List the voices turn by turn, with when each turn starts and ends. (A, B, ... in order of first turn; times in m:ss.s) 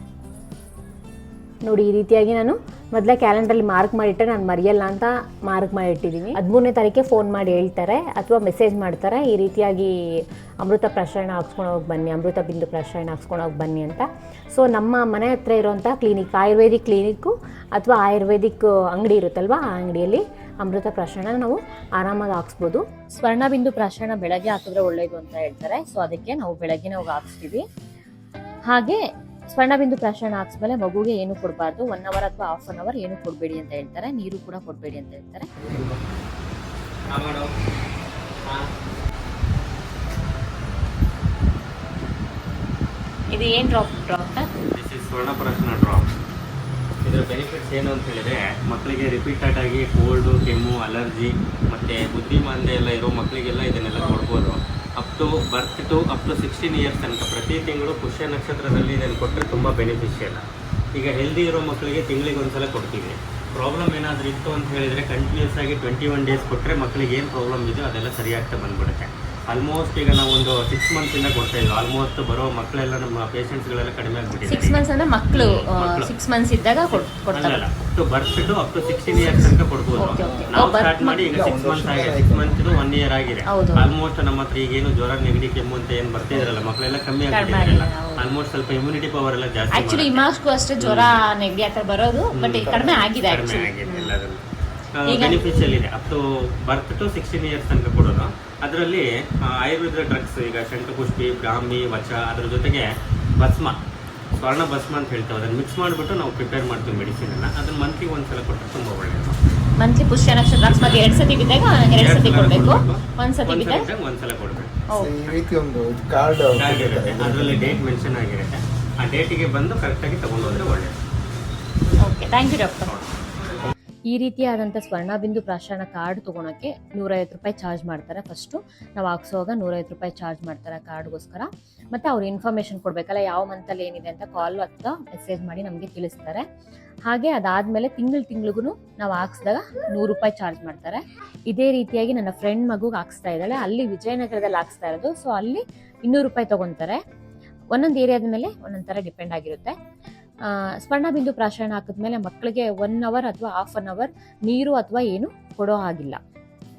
0:01.6-0:27.6 A
0:28.7-0:35.5 A
0:35.6-0:36.0 B
0:37.1-0:37.5 B
0:38.4-0:38.7 B
0:43.3-0:44.5 A
0:44.7-0:46.1 B
0:47.0-1:00.4 B
1:01.0-1:14.8 B
1:14.5-1:17.6 A
1:15.3-1:16.1 B
1:16.9-1:31.2 B
1:20.0-1:21.3 A
1:20.2-1:20.5 C
1:21.2-1:22.6 C
1:23.5-1:23.9 A
1:27.3-1:28.3 A
1:29.7-1:34.1 A
1:32.3-1:34.4 B
1:32.7-1:33.1 C
1:35.0-1:43.8 B
1:35.0-1:35.8 A
1:44.4-1:49.4 B
1:49.8-1:53.9 A
1:50.6-1:54.8 B
1:54.9-1:55.2 A
1:54.9-1:57.8 C
1:56.5-2:01.0 B
2:02.0-2:03.0 A
2:04.1-2:16.4 A
2:17.1-2:27.0 A
2:27.7-2:29.8 A
2:30.4-2:36.2 A